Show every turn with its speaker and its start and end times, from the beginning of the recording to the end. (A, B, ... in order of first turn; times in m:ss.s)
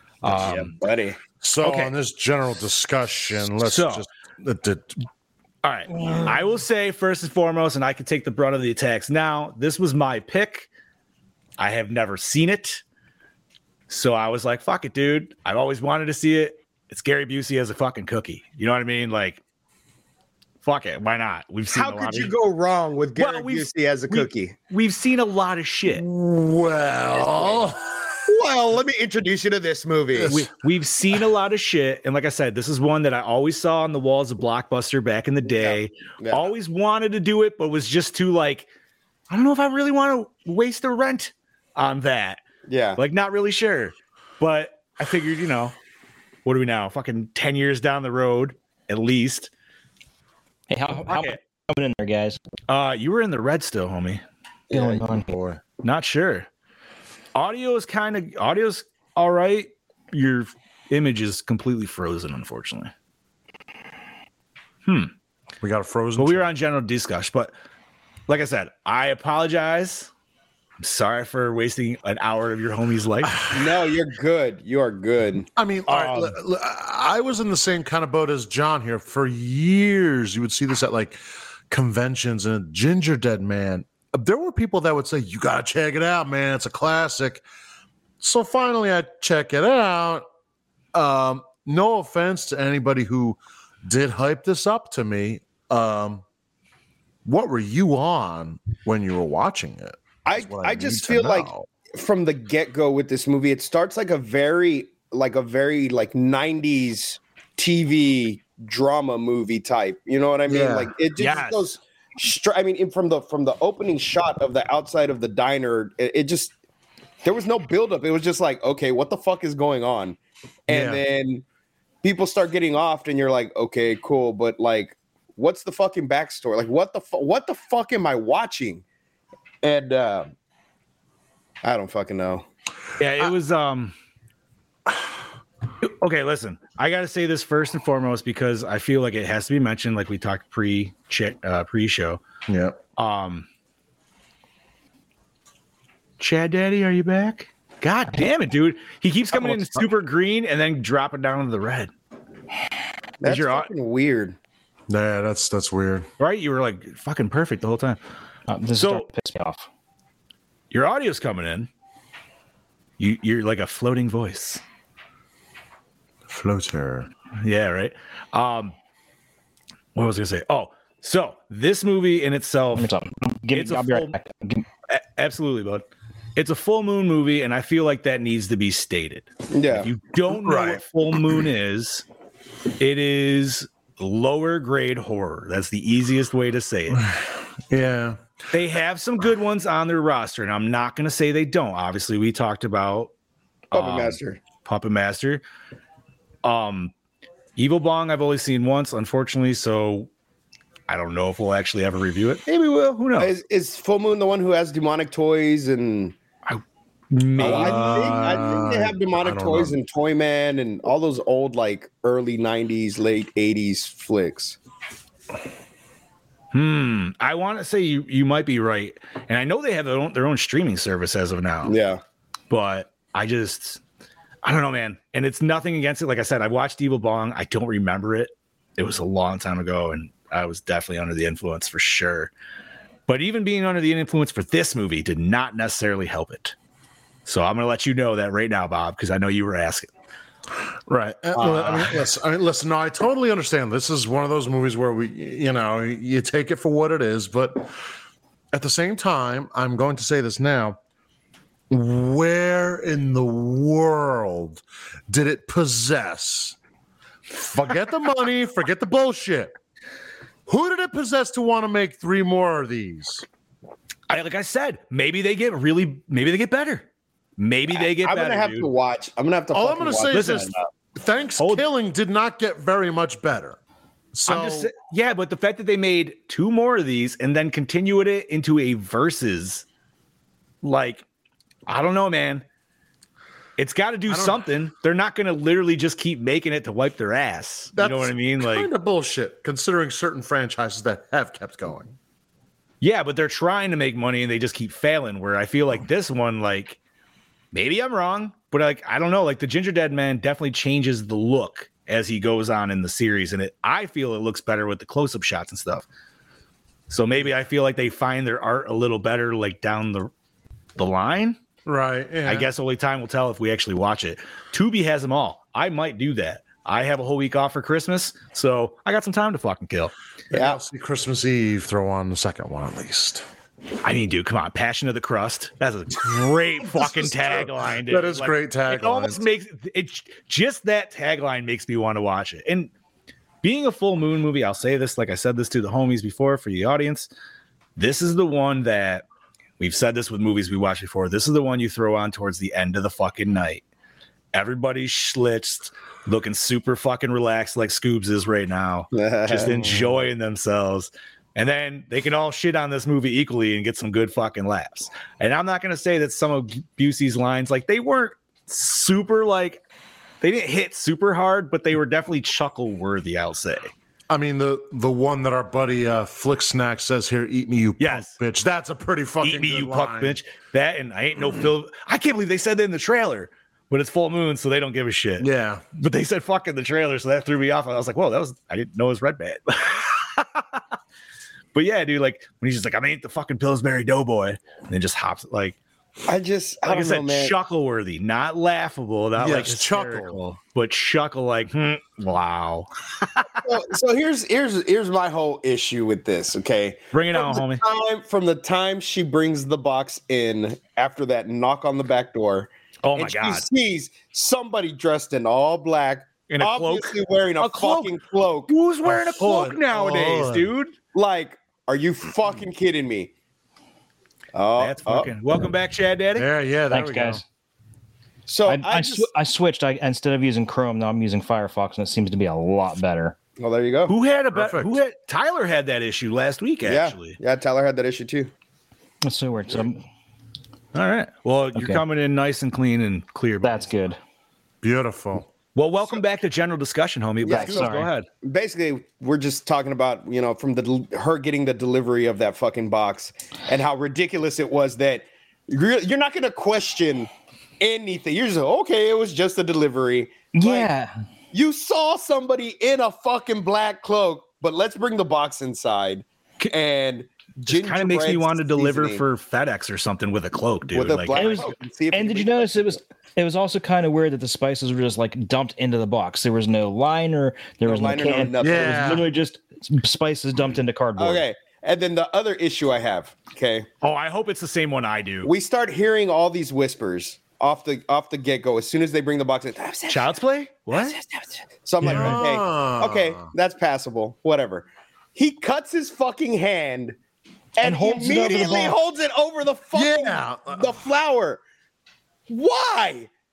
0:00.2-0:00.7 A
0:00.2-0:01.2 B
0:01.4-0:05.0 C
0:01.6-0:01.9 A
0:03.6-0:04.0 A
0:05.6-0:10.7 A
0:11.6-0:12.8 A
0:13.9-0:19.4 A
0:20.6-0:22.3 A
0:21.7-0:24.5 B
0:23.2-0:26.0 A
0:25.8-0:28.2 C
0:28.2-0:30.4 B
0:30.1-0:30.5 C
0:30.3-0:38.7 A
0:35.4-0:36.5 B
0:39.3-0:42.4 A
0:42.7-0:43.0 B
0:43.0-0:45.8 A
0:46.4-0:49.5 A
0:50.7-0:52.4 D
0:51.0-0:51.4 A
0:52.7-0:54.2 A
0:54.7-0:55.3 D
0:54.7-0:55.6 C
0:55.8-0:56.5 A
0:57.3-1:02.9 A
1:04.8-1:05.1 A
1:05.6-1:06.5 C
1:06.2-1:07.5 A
1:08.3-1:10.1 A
1:10.8-1:13.4 A
1:13.2-1:13.6 C
1:13.5-1:15.5 B
1:15.6-1:21.2 C
1:15.9-1:16.3 A
1:21.7-1:27.4 C
1:28.2-1:30.2 C
1:30.9-1:36.2 C
1:37.2-1:41.7 C
1:40.2-1:56.5 B
1:50.5-1:50.9 C
1:51.2-1:51.6 A
1:57.2-2:01.4 B
2:00.7-2:01.0 C
2:02.0-2:08.8 B
2:09.6-2:10.3 B
2:11.6-2:12.4 B
2:13.0-2:13.9 A
2:15.8-2:22.2 A
2:22.5-2:22.8 C
2:23.0-2:23.4 A
2:26.2-2:31.9 A
2:33.2-2:34.4 B
2:33.2-2:33.7 A
2:34.9-2:36.0 C
2:36.2-2:38.0 A
2:38.5-2:39.7 D
2:38.8-2:39.0 A
2:40.7-2:41.7 A
2:43.0-2:44.6 A
2:46.3-2:47.1 C
2:47.4-2:48.7 A
2:49.9-2:52.9 A
2:52.7-2:54.6 D
2:53.5-2:54.1 A
2:54.9-3:02.0 A
2:59.5-2:59.9 B
3:00.3-3:01.4 C
3:02.8-3:07.0 A
3:06.9-3:08.2 C
3:08.5-3:13.1 A
3:13.7-3:15.4 A
3:13.7-3:14.4 B
3:16.4-3:16.9 A
3:17.6-3:20.1 A
3:20.9-3:23.3 A
3:23.2-3:26.1 B
3:26.5-3:28.4 A
3:27.4-3:34.6 B
3:27.4-3:29.8 C
3:36.5-3:41.7 A
3:41.6-3:42.0 B
3:42.5-3:43.8 A
3:44.4-3:52.3 A
3:53.1-3:56.5 A
3:57.2-3:59.9 A
4:00.9-4:07.7 C
4:01.3-4:02.0 A
4:08.5-4:10.8 C
4:11.7-4:16.6 C
4:17.3-4:19.6 C
4:20.5-4:23.2 C
4:24.1-4:26.9 A
4:27.4-4:28.7 A
4:27.7-4:30.6 B
4:29.5-4:33.6 C
4:30.1-4:30.5 A
4:31.4-4:31.6 A
4:34.1-4:34.7 C
4:34.2-4:39.6 A
4:40.6-4:41.0 A
4:41.7-4:42.4 A
4:43.6-4:48.7 A
4:44.1-4:44.4 C
4:47.8-4:51.9 C
4:52.8-4:56.8 A
4:57.5-5:05.8 A
5:06.9-5:10.1 A
5:10.8-5:11.4 A
5:11.6-5:12.5 C
5:12.2-5:19.9 A
5:20.3-5:23.2 C
5:20.3-5:20.6 B
5:23.8-5:32.7 A
5:26.0-5:29.2 C
5:33.4-5:37.1 A
5:37.8-5:39.0 A
5:39.6-5:43.6 A
5:44.3-5:59.6 A
5:48.9-5:50.0 B
6:00.2-6:03.7 A
6:04.1-6:10.2 C
6:07.8-6:08.1 A
6:09.2-6:20.6 A
6:15.2-6:15.6 C
6:21.5-6:25.6 A
6:26.1-6:27.3 B
6:26.6-6:33.4 A
6:29.2-6:30.2 C
6:33.4-6:48.5 B
6:36.9-6:37.6 A
6:42.8-6:43.4 A
6:46.3-6:47.9 A
6:48.5-6:50.7 A
6:48.8-6:50.5 C
6:50.9-6:53.1 B
6:54.3-6:55.1 B
6:54.6-6:56.3 A
6:56.2-6:57.2 C
6:56.7-6:57.2 D
6:58.3-6:59.1 B
6:58.4-7:03.1 D
7:03.4-7:03.9 B
7:03.9-7:07.2 A
7:04.3-7:04.8 C
7:06.6-7:08.3 B
7:09.0-7:09.8 D
7:10.7-7:13.7 A
7:11.6-7:11.8 D
7:13.4-7:14.0 D
7:14.6-7:15.3 C
7:15.6-7:18.0 A
7:17.2-7:30.7 B
7:17.3-7:17.9 D
7:30.3-7:30.9 D
7:31.3-7:39.0 B
7:37.4-7:41.5 A
7:40.7-7:42.8 B
7:41.1-7:51.2 D
7:47.6-7:49.0 B
7:48.4-7:49.1 C
7:51.0-7:53.7 B
7:53.8-7:55.3 A
7:55.2-8:00.1 B
7:59.9-8:01.0 A
8:00.7-8:07.0 B
8:01.8-8:02.2 A
8:01.8-8:03.3 C
8:07.6-8:11.4 B
8:07.6-8:08.8 D
8:09.7-8:10.8 C
8:12.3-8:13.1 B